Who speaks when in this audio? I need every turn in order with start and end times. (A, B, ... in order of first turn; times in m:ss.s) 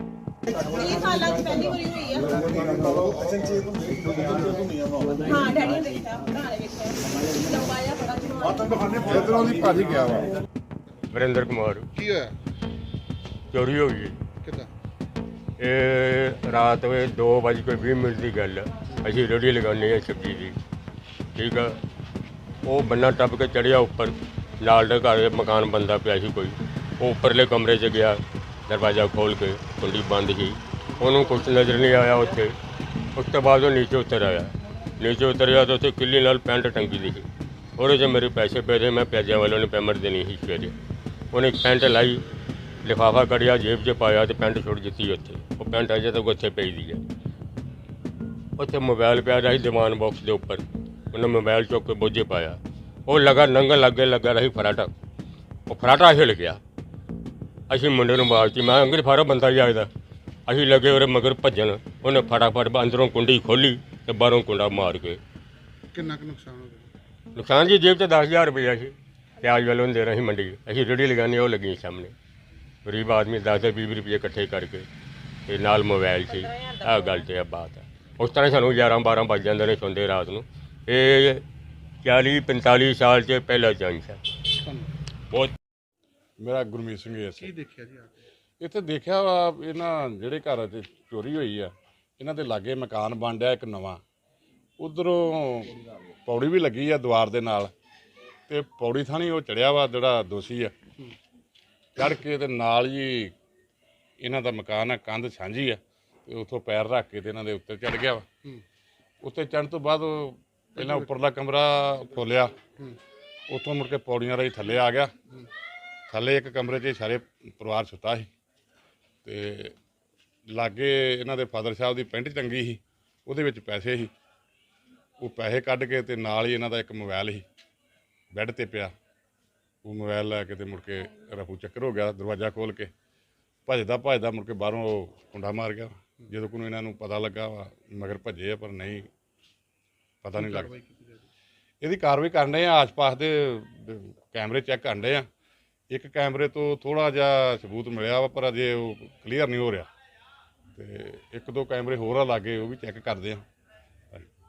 0:00.5-0:02.4 A
0:05.2-0:08.7 A
0:08.7-0:10.3 B
0:11.1-0:11.9 C
0:11.9-0:12.4 D
0:13.5-0:14.2 C
0:14.4-0:14.7 D
0:15.6-0:20.6 C
0:21.3-0:21.8 C
0:22.6-0:32.6 C
0:33.1-0:40.7 C
0:41.3-0:42.2 C
0:42.8-0:47.0 C
0:48.6-0:54.9 C
0:55.7-0:56.6 C
0:57.7-0:59.9 C
1:00.4-1:05.2 C
1:05.9-1:06.9 D
1:07.3-1:12.1 C
1:12.8-1:14.9 C
1:15.5-1:21.4 C
1:22.0-1:24.2 C
1:24.6-1:24.9 D
1:26.4-1:27.5 B
1:27.4-1:28.1 D
1:28.6-1:34.0 B
1:34.8-1:37.7 B
1:38.5-1:40.8 B
1:42.0-1:43.3 B
1:44.2-1:48.3 B
1:49.2-1:52.6 B
1:50.8-1:51.1 D
1:53.5-1:55.2 B
1:56.1-1:58.3 B
1:59.2-1:59.8 B
2:00.5-2:04.1 B
2:05.2-2:07.4 B
2:08.3-2:08.9 B
2:09.8-2:12.9 B
2:13.7-2:19.1 B
2:20.2-2:20.7 B
2:20.4-2:21.3 D
2:21.8-2:25.3 B
2:25.9-2:29.9 B
2:30.8-2:33.4 B